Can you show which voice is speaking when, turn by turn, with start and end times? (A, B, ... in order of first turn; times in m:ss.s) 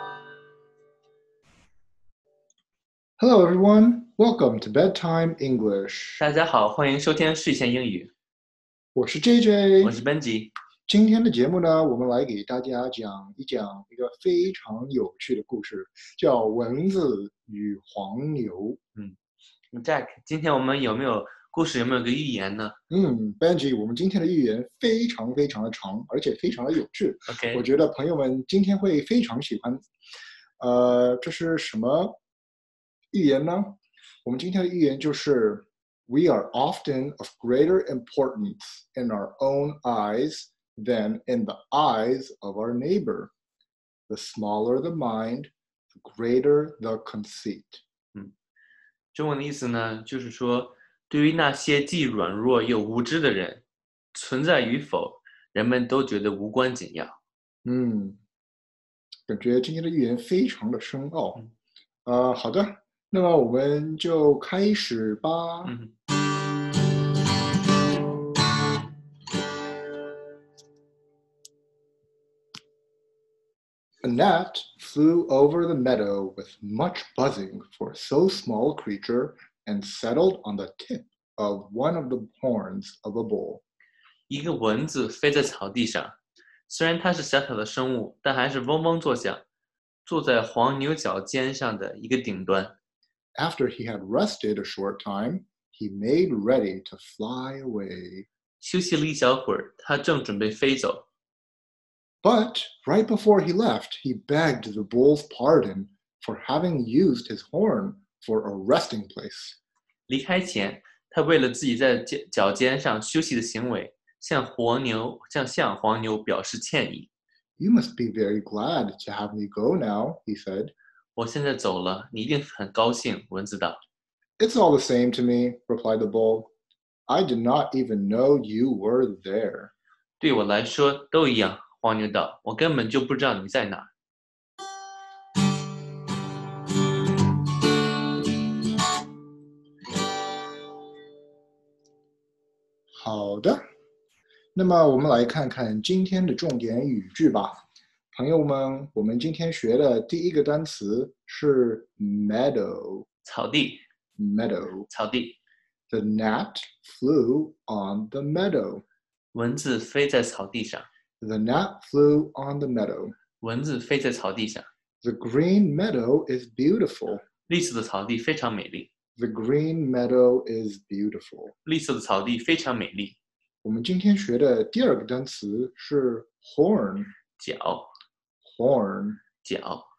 0:03.2-0:06.2 A
0:06.2-0:08.1 B
0:08.9-0:10.0 A
0:09.8-0:10.5 B
0:10.9-0:18.8 A
0:19.7-0:22.8 B
0:22.9-0:29.8 A
0:27.3-0:27.6 B
0:30.6-0:32.2 A
0:33.1-0:43.3 A
0:44.1-0:47.8 A
0:49.1-0:57.1 B
0:57.6-0:58.2 A
0:59.3-1:01.4 A
1:02.0-1:05.7 A
1:05.6-1:05.9 B
1:14.0-1:23.6 A
1:24.3-1:26.1 B
1:26.7-1:29.4 B
1:30.0-1:32.7 B
1:33.4-1:38.3 A
1:38.6-1:41.0 B
1:42.2-1:49.6 A
1:50.1-1:57.1 B
1:57.6-2:00.7 A
2:01.2-2:03.8 B
2:04.4-2:06.5 A
2:07.1-2:09.7 A
2:10.2-2:13.9 B
2:22.9-2:23.6 A
2:24.5-2:27.6 A
2:28.1-2:33.1 A
2:33.2-2:33.8 B
2:34.2-2:34.9 A
2:34.9-2:35.4 B
2:35.9-2:38.8 A
2:39.3-2:40.9 B
2:41.2-2:43.2 A
2:43.4-2:44.7 B
2:45.0-2:47.2 A
2:47.5-2:48.9 B
2:49.2-2:51.5 A
2:51.6-2:53.2 B
2:53.6-2:57.1 A
2:57.4-2:57.9 B
2:58.4-2:59.2 A
2:59.4-2:59.9 B